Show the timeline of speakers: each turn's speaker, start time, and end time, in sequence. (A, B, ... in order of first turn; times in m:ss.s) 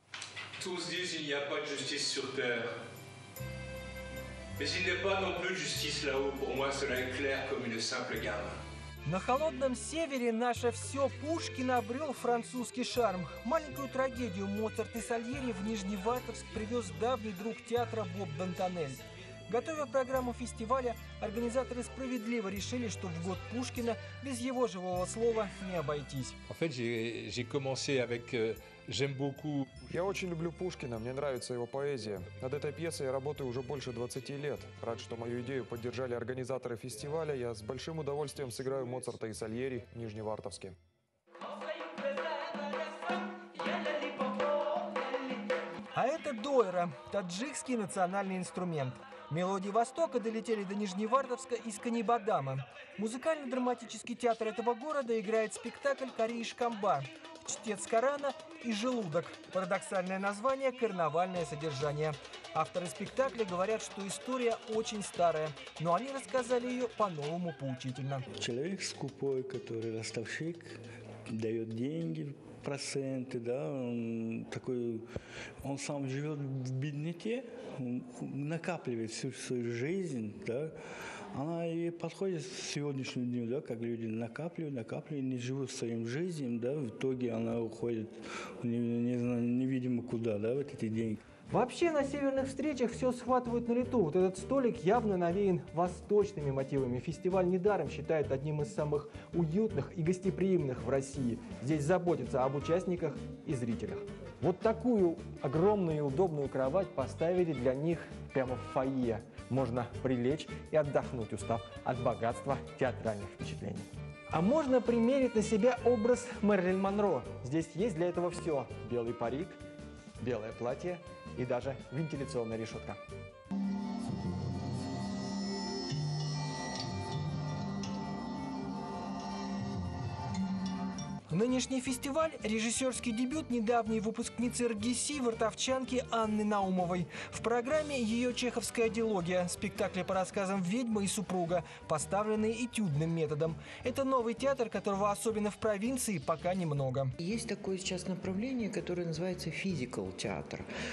0:00.6-0:02.7 A
0:04.6-0:08.6 A
0:09.0-0:26.4 B
0:26.5-0:29.8 A
0:29.9-0:40.8 C
0:45.9-1:08.2 B
1:08.4-1:15.1 D
1:15.6-1:20.8 D
1:21.3-1:31.2 D
1:31.5-1:59.6 B
2:00.2-2:03.0 B
2:11.3-2:27.1 B
2:27.2-2:30.6 E